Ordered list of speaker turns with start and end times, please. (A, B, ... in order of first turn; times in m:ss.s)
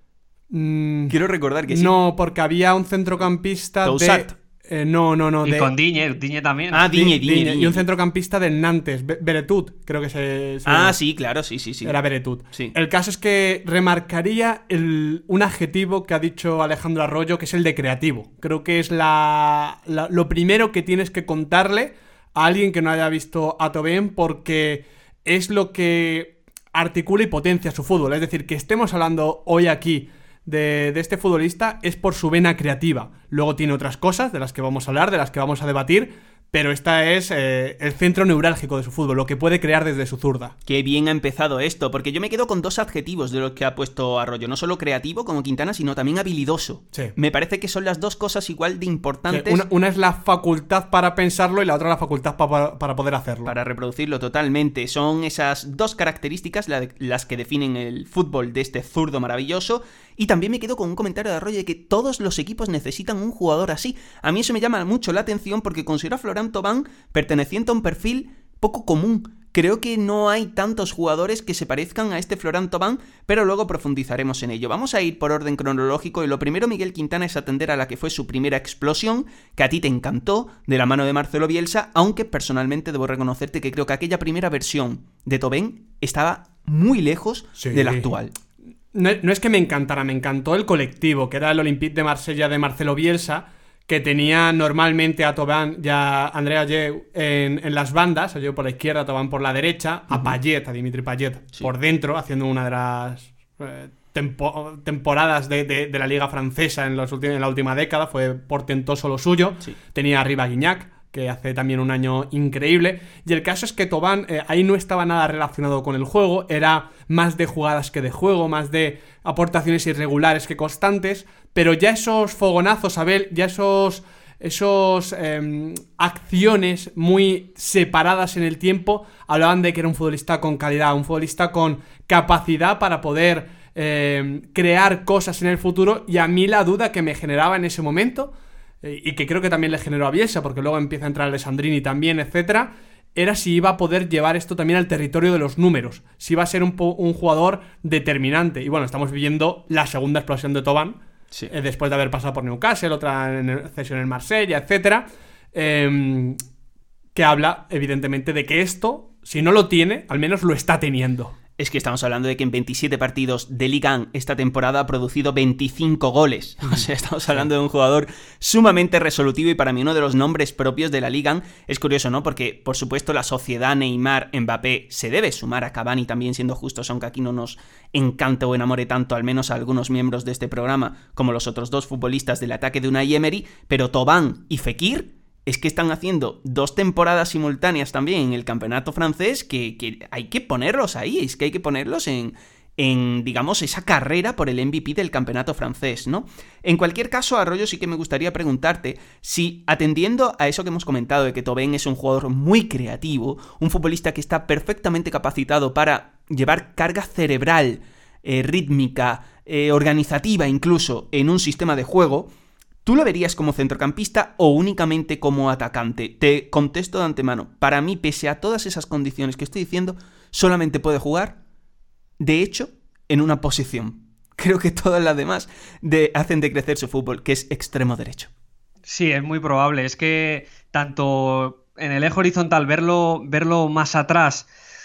0:00.5-0:01.2 A
0:01.1-0:01.9 B
0:01.7-0:05.7 A
0:03.8-0:04.3 B
0:05.4-0:06.9 C
0:06.7-0:07.8 B
0:06.8-0:11.0 A
0:10.7-0:12.0 B
0:11.8-0:40.6 A
0:40.7-0:49.7 B
0:49.3-0:53.5 A
0:53.4-1:28.3 B
1:27.6-1:28.1 A
1:28.9-2:36.4 A
2:37.2-2:41.4 A
2:41.6-3:32.3 B
3:32.8-3:41.4 B
3:42.2-3:48.3 B
3:48.9-3:54.5 C